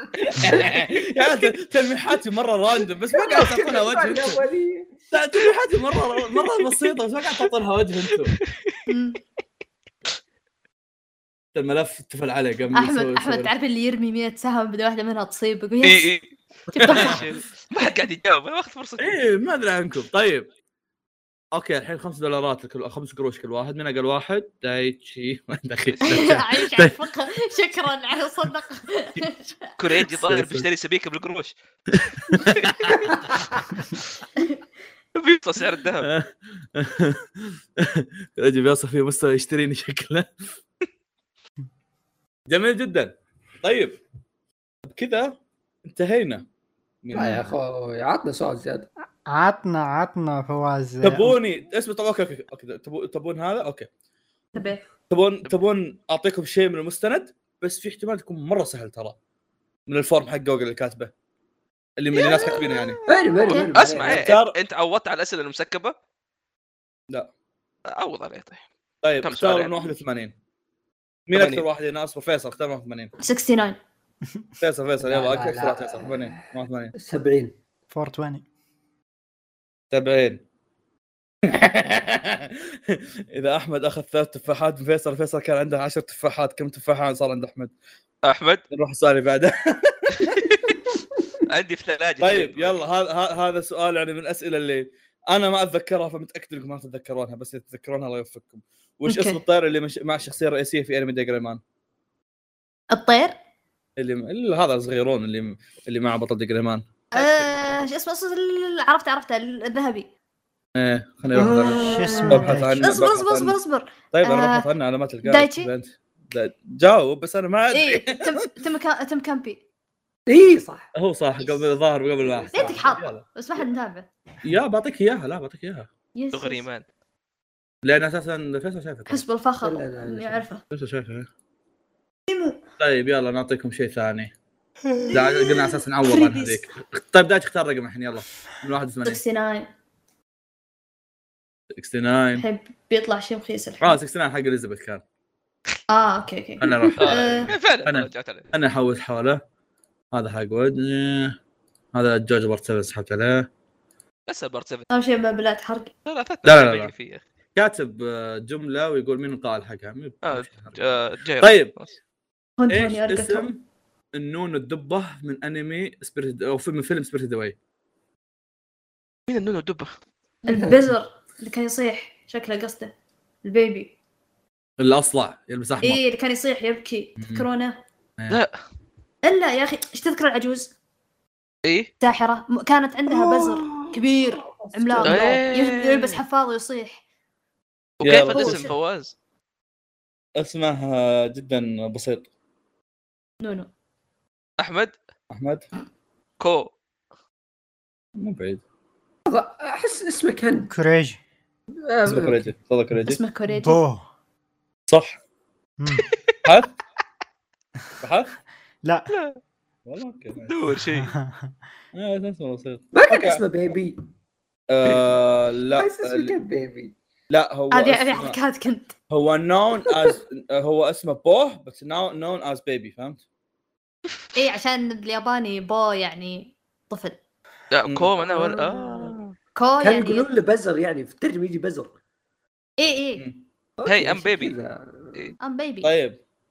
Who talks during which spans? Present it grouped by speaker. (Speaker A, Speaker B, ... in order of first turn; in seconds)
Speaker A: 0.2-0.7, 8.4-8.8, 15.8-16.3, 16.8-19.2, 29.8-31.5, 32.6-33.1, 35.1-36.1, 63.5-66.0, 67.9-68.6, 69.2-69.7, 71.3-71.6, 88.2-88.6, 91.5-92.8, 126.3-126.8, 147.0-148.5, 154.3-154.9, 156.1-157.2, 160.2-161.9, 169.3-169.9, 178.3-178.6, 181.7-181.9, 185.0-186.2, 188.0-189.1, 194.6-194.9, 196.4-196.7, 209.1-209.4, 210.5-211.1, 227.7-229.3, 233.8-234.6
Speaker B: 0.3-4.4, 5.1-8.4, 11.6-13.5, 16.7-17.2, 19.0-20.5, 21.5-27.0, 30.2-30.7, 31.9-33.4, 36.0-40.3, 42.5-44.0, 44.8-46.5, 47.0-47.5, 51.0-53.9, 55.1-59.2, 59.9-61.1, 62.0-63.0, 64.0-64.6, 69.0-70.3, 71.3-73.1, 74.6-76.9, 79.9-80.4, 81.5-87.7, 88.7-90.5, 92.2-101.6, 104.0-106.8, 110.8-113.6, 114.1-118.5, 120.9-123.2, 124.4-125.9, 127.8-129.2, 130.7-131.3, 132.8-134.3, 135.1-139.2, 141.8-142.4, 143.8-145.0, 146.6-149.4, 150.1-151.4, 151.9-153.5, 156.4-156.9, 157.6-161.8, 162.7-167.6, 174.8-176.0, 177.2-177.5, 188.0-188.7, 190.4-192.3, 195.3-195.7, 198.2-198.6, 202.1-203.2, 204.9-205.2, 206.4-206.7, 208.0-208.3, 209.9-210.6, 211.9-213.4, 214.7-216.4, 217.3-218.4, 219.1-223.2, 235.8-236.2
Speaker C: 3.1-4.9, 47.1-48.9, 62.4-64.2, 75.0-76.4, 77.0-77.5, 111.3-112.7, 120.3-120.9, 122.2-122.9, 129.6-130.5, 170.5-170.9, 183.1-185.4, 199.3-200.7, 201.8-202.5, 212.9-214.0, 215.7-216.9, 228.2-229.2, 229.8-232.0, 233.8-235.3
Speaker D: 8.9-9.2, 12.7-16.1, 16.7-17.3, 26.0-29.7, 54.5-54.8, 63.5-63.8, 73.2-73.8, 99.1-99.4, 102.9-103.4, 107.1-110.1, 112.8-114.7, 115.2-115.7, 117.7-119.6, 122.5-124.1, 126.2-126.7, 129.1-130.6, 132.3-132.6, 136.0-136.7, 139.1-139.7, 142.4-144.0, 145.9-147.5, 154.9-155.9, 162.6-163.5, 170.4-172.9, 173.4-173.9, 175.8-177.8, 179.2-180.7, 182.0-187.0, 188.3-188.7, 193.4-193.7, 203.0-203.8, 217.7-218.9, 224.4-227.2, 229.6-230.3, 232.8-233.2, 235.4-235.9
Speaker E: 49.3-51.4, 77.9-78.5, 111.4-112.9, 134.9-135.2, 200.7-201.2, 203.5-204.1, 205.8-206.1, 208.8-209.1, 210.8-211.5